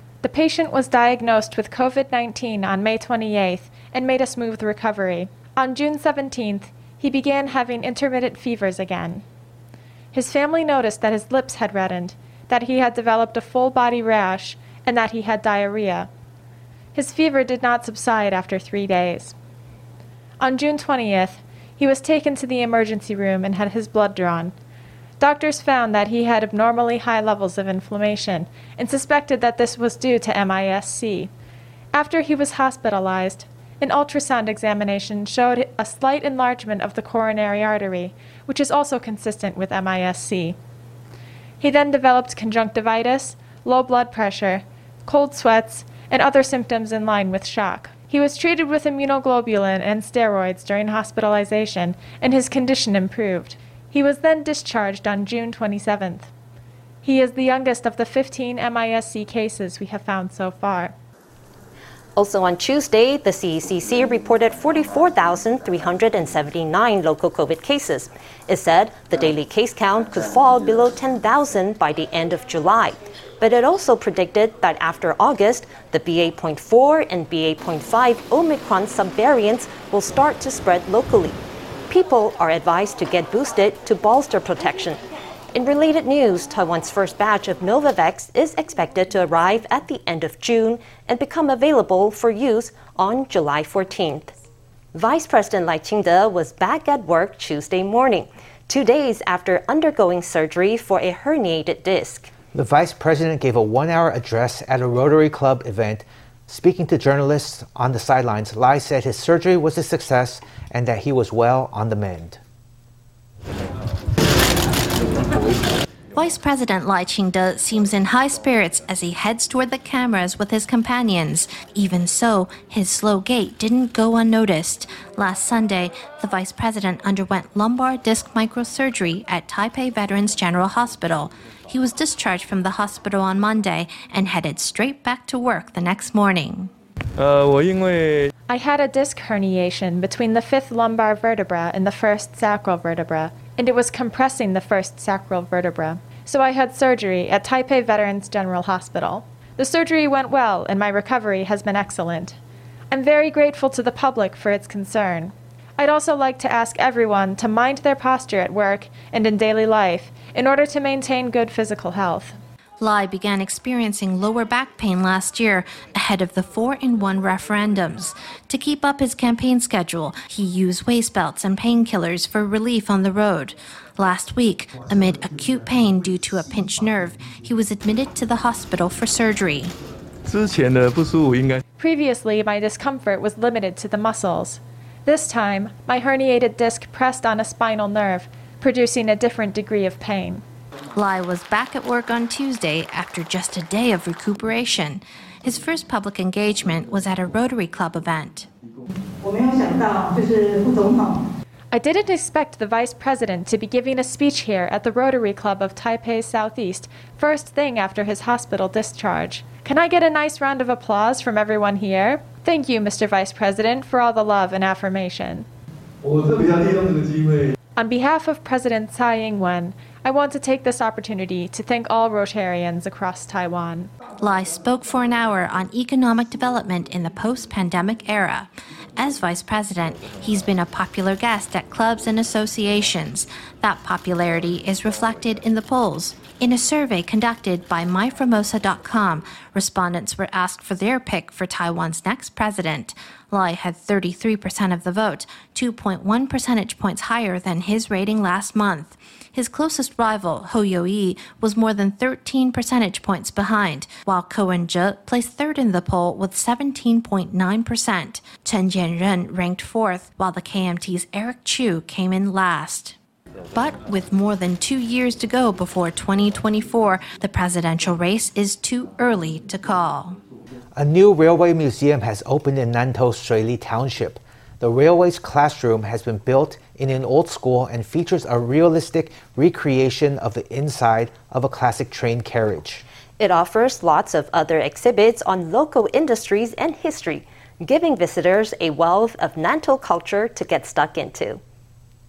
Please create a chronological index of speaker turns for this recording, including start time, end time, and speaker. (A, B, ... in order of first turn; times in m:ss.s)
0:00.2-0:09.2 A
0:10.1-0:16.1 A
0:17.0-0:19.4 A
0:20.4-0:24.5 A
0:25.2-0:31.3 A
0:31.9-0:40.6 A
0:41.6-0:56.3 A
0:57.0-1:00.9 A
1:02.2-1:25.0 B
1:25.5-1:34.3 B
1:34.9-1:42.3 B
1:42.5-1:52.4 C
1:56.2-2:16.7 D
2:18.5-2:32.4 A
2:32.9-2:42.4 A
2:42.8-2:59.8 D
3:01.8-3:10.4 A
3:11.0-3:18.5 D
3:21.7-3:35.5 A
3:37.8-3:43.9 A
3:44.2-4:23.0 D
4:23.5-4:30.2 D
4:30.8-4:42.8 C
4:43.2-4:51.4 B